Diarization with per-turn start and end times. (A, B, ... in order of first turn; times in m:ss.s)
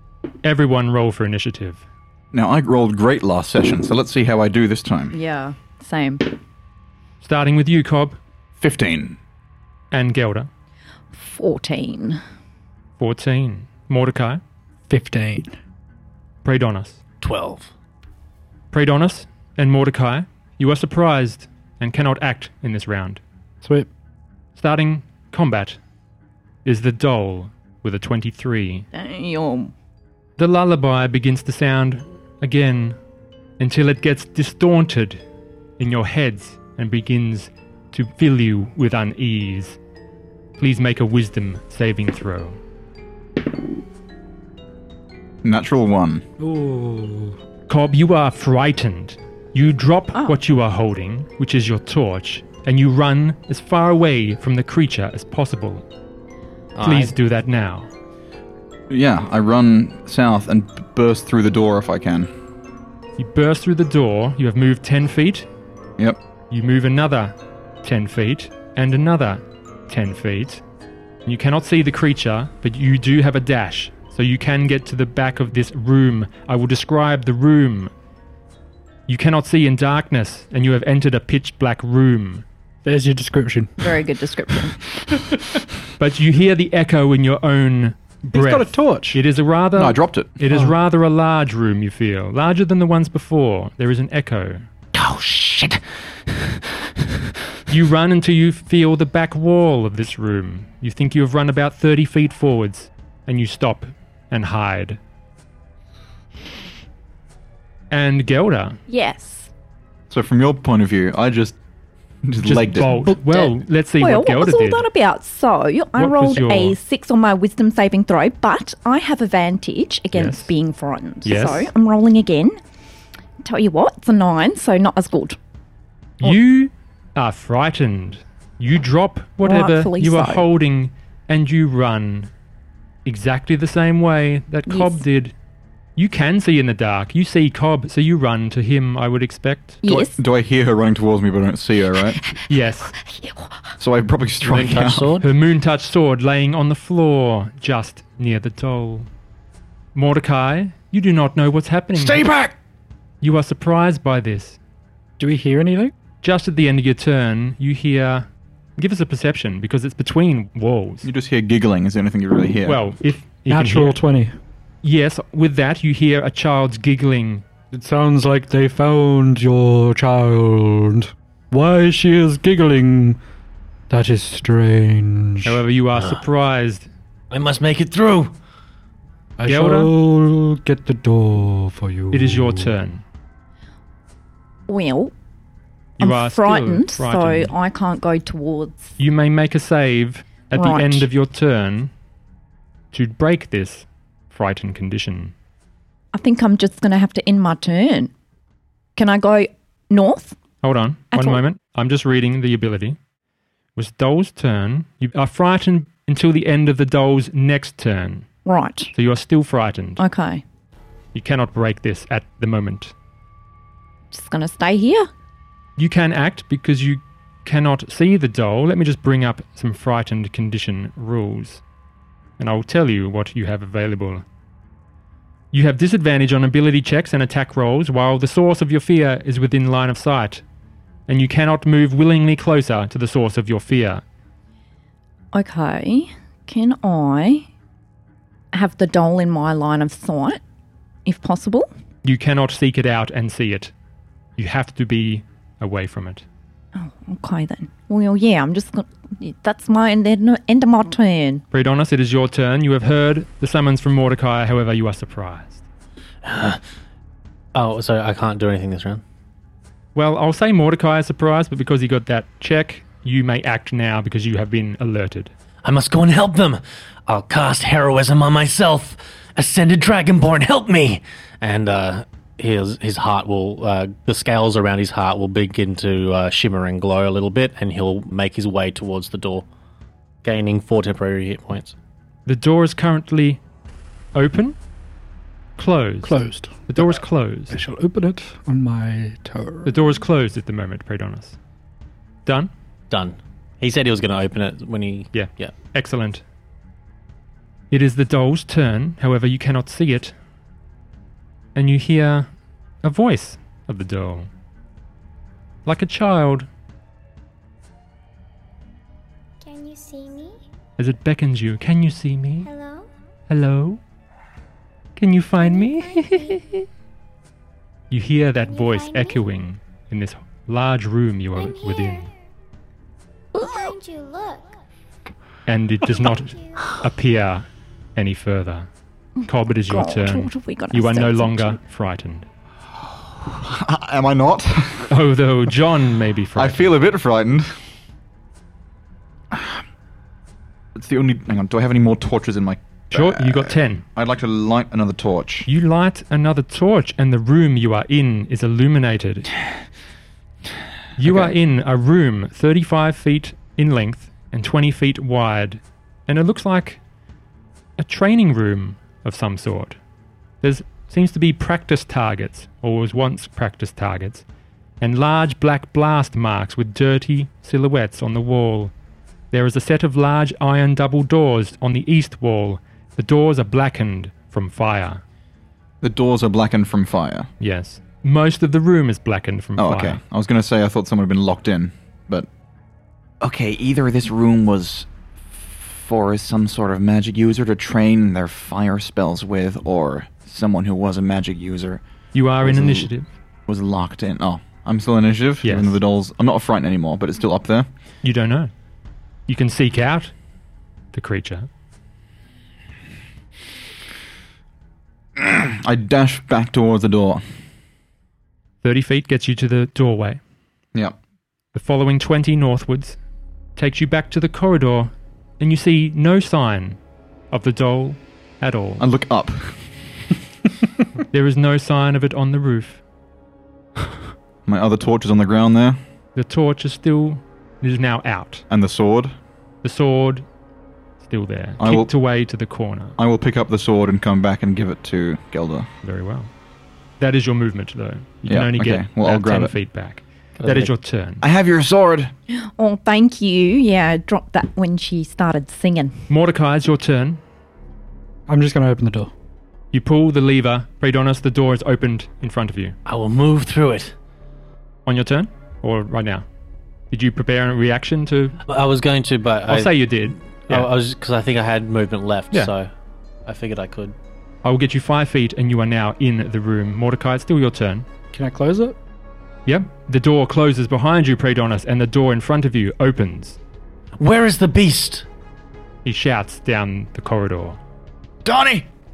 0:00.4-0:01.8 A
0:02.3-0:05.2 B
0:05.1-0:06.3 C
0:07.2-0:08.2 A
0:08.6-0:09.2 B
0:09.9-0:10.5 A
0:11.1-0:12.2 C
0:13.0-0:14.4 A
0:14.9-0:15.5 D
0:16.4-0:17.0 A
0:17.2-0:17.7 E
0:18.7-0:23.2 A
0:23.6-0:23.9 D
0:24.6-0:25.8 A
0:26.6-0:28.9 A
0:28.9-0:29.7 C
0:30.4-0:33.0 A
0:33.6-0:35.2 A
0:35.8-0:39.8 A
0:40.6-0:42.6 A
0:45.4-0:46.2 B
0:46.4-0:47.4 D
0:47.7-0:55.8 A
0:56.7-0:57.1 E
0:56.8-0:57.9 A
0:58.9-1:02.3 B
1:03.2-1:05.5 A
1:06.5-1:10.6 A
1:11.2-1:17.9 A
1:19.1-1:22.4 A
1:22.8-1:24.1 D
1:23.8-1:24.8 C
1:25.1-1:25.6 D
1:26.0-1:34.6 A
1:28.3-1:29.2 D
1:29.8-1:30.4 B
1:34.9-1:36.6 B
1:37.7-1:45.0 A
1:47.9-1:48.8 A
1:48.9-1:49.5 C
1:50.1-1:51.6 B
1:52.2-1:52.9 B
1:52.4-1:54.9 A
1:53.0-2:02.6 C
1:56.0-1:56.8 A
2:00.1-2:00.5 A
2:01.2-2:01.7 A
2:03.4-2:05.4 C
2:06.2-2:12.3 A
2:09.4-2:10.5 C
2:13.0-2:15.3 A
2:14.7-2:15.0 C
2:16.0-2:19.8 A
2:19.8-2:20.2 C
2:19.8-2:22.2 B
2:22.1-2:23.7 C
2:22.5-2:22.9 A
2:23.8-2:25.2 B
2:24.4-2:25.2 E
2:25.2-2:29.1 A
2:29.9-2:32.2 A
2:32.2-2:32.5 E
2:33.2-2:34.6 A
2:35.2-2:35.9 D
2:36.2-2:38.2 A
2:38.8-2:41.1 A
2:41.0-2:42.8 B
2:42.6-2:44.0 A
2:43.5-2:44.3 D
2:44.8-2:47.4 A
2:47.7-2:53.2 D
2:53.9-2:55.6 D
2:55.4-2:56.9 A
2:55.9-2:56.2 E
2:57.3-2:58.3 E
2:59.4-3:02.8 D
2:59.4-2:59.9 A
3:02.1-3:03.0 A
3:04.7-3:05.1 C
3:06.0-3:07.5 A
3:06.0-3:09.0 C
3:09.0-3:11.9 A
3:10.5-3:11.1 C
3:12.9-3:15.3 A
3:16.1-3:18.1 C
3:19.0-3:20.4 C
3:20.6-3:23.0 A
3:21.1-3:21.4 C
3:23.8-3:28.3 A
3:28.4-3:28.9 C
3:28.9-3:30.0 A
3:30.0-3:30.4 C
3:31.1-3:32.9 A
3:34.1-3:35.1 C
3:35.8-3:41.6 A
3:42.4-3:44.2 A
3:45.5-3:50.4 A
3:51.1-3:54.0 A
3:55.3-3:57.4 C
3:58.5-4:00.4 C
4:01.0-4:01.7 C
4:02.0-4:03.7 A
4:04.4-4:06.2 A
4:06.7-4:11.4 C
4:11.5-4:15.6 A
4:16.2-4:16.6 E
4:17.5-4:19.0 E
4:19.9-4:25.3 A
4:25.6-4:39.4 E
4:40.2-4:41.8 E
4:42.2-4:43.4 A
4:44.1-4:44.6 A
4:45.6-4:47.6 A
4:46.0-4:49.7 D
4:49.6-4:51.4 A
4:52.2-4:52.5 A
4:52.9-4:55.5 E
4:55.1-4:56.2 A
4:57.7-5:00.1 A
5:01.5-5:02.3 A
5:02.8-5:04.3 A
5:05.6-5:06.5 A
5:09.4-5:10.4 F
5:10.8-5:12.5 A
5:12.4-5:12.9 F
5:13.3-5:13.8 A
5:15.0-5:16.6 A
5:15.4-5:16.5 F
5:17.9-5:22.1 A
5:18.5-5:19.2 F
5:21.3-5:22.1 F
5:23.3-5:24.6 F
5:23.4-5:23.7 C
5:25.4-5:28.7 A
5:25.9-5:26.8 F
5:29.3-5:32.3 A
5:29.7-5:31.6 C
5:32.8-5:34.9 B
5:34.9-5:36.7 A
5:36.3-5:37.6 B
5:39.3-5:39.6 B
5:40.7-5:45.5 B
5:42.9-5:43.8 A
5:45.4-5:49.3 A
5:51.0-5:56.8 A
5:51.0-5:51.3 B
5:57.8-5:59.8 A
6:00.4-6:04.2 A
6:04.8-6:08.7 A
6:09.3-6:15.0 A
6:15.8-6:17.3 B
6:17.4-6:20.0 A
6:19.6-6:22.3 B
6:23.2-6:31.8 B
6:32.1-6:33.1 A
6:32.4-6:32.9 B
6:33.5-6:37.7 B
6:35.4-6:35.8 A
6:38.0-6:38.5 A
6:39.3-6:40.1 A
6:40.9-6:41.5 A
6:45.2-6:47.2 B
6:48.6-6:50.2 A
6:51.5-6:53.0 A
6:53.6-6:56.8 A
6:57.3-6:58.8 A
6:58.8-6:59.9 B
7:01.1-7:02.8 A
7:04.4-7:05.8 B
7:06.1-7:08.4 A
7:08.5-7:09.1 B
7:09.6-7:10.2 A
7:11.0-7:13.0 A
7:11.6-7:11.9 B
7:13.0-7:15.7 B
7:15.8-7:16.3 A
7:17.0-7:21.2 A
7:18.2-7:19.5 B
7:20.4-7:20.7 E
7:21.2-7:22.1 B
7:22.3-7:26.0 C
7:26.1-7:27.2 A
7:28.3-7:29.1 D
7:29.7-7:32.8 A
7:32.8-7:33.9 E
7:34.8-7:36.2 A
7:36.9-7:38.4 A
7:38.5-7:42.7 E
7:39.5-7:40.7 A
7:43.2-7:43.9 E
7:44.4-7:47.8 A
7:48.1-7:48.8 D
7:49.4-7:53.4 A
7:54.0-7:55.0 E
7:55.8-7:57.6 A
7:58.2-7:58.7 B